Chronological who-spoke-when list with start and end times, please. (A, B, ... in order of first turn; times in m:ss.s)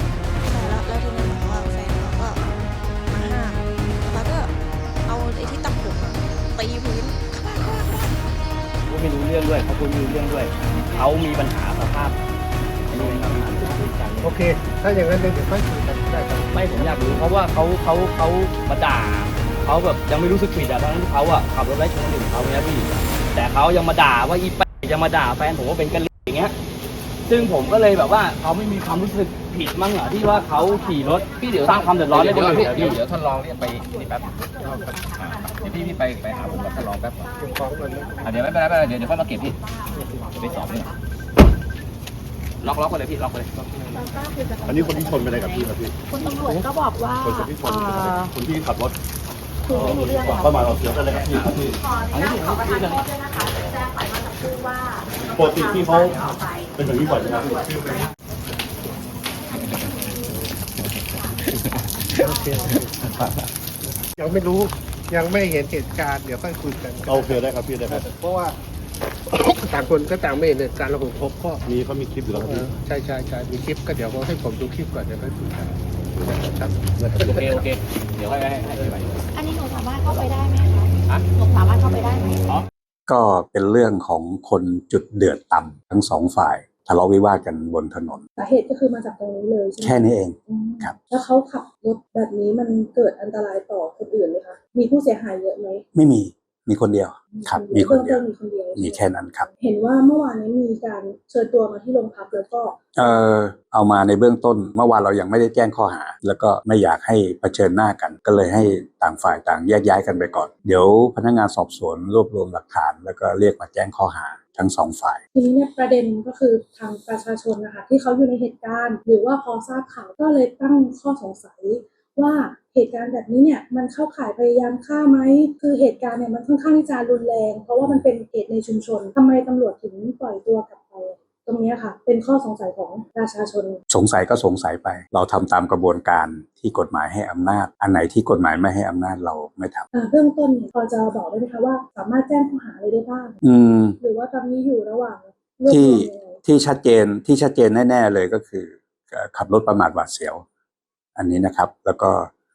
0:00.4-0:02.4 A
0:03.1-0:04.5 A
0:05.1-0:08.1 A
0:08.9-0:12.2 B
0:12.9-0:14.3 B
0:12.9-0:17.3 C
0:16.5-0:26.5 B
0:27.2-0:33.0 B
0:31.3-0:34.6 D
0:35.1-0:37.3 D
0:37.3-0:38.3 C
0:38.2-0:40.9 D
0:40.0-0:40.2 C
0:42.6-0:43.8 D
0:44.1-0:44.8 E
0:44.6-0:46.6 F
0:46.1-0:48.3 E
0:47.2-0:48.9 F
0:49.7-0:50.7 E
0:49.7-0:51.8 F
0:49.8-0:50.4 D
0:51.1-0:53.0 D
0:51.8-0:58.1 E
0:55.3-0:56.1 F
0:56.8-0:58.1 F
1:02.1-1:03.0 C
1:04.2-1:08.6 C
1:07.1-1:08.1 F
1:09.3-1:11.6 C
1:11.7-1:12.7 F
1:12.2-1:17.8 C
1:17.2-1:19.1 D
1:19.4-1:22.4 E
1:23.1-1:28.2 G
1:28.4-1:30.0 H
1:29.8-1:31.0 G
1:30.5-1:35.8 H
1:35.9-1:38.2 G
1:37.3-1:39.0 H
1:38.8-1:39.5 G
1:39.6-1:42.8 H
1:43.0-1:55.2 G
1:55.4-2:13.8 H
2:13.9-2:19.9 G
2:19.9-2:23.4 H
2:23.4-2:24.0 G
2:24.0-2:26.4 H
2:25.7-2:30.4 G
2:31.2-2:32.3 G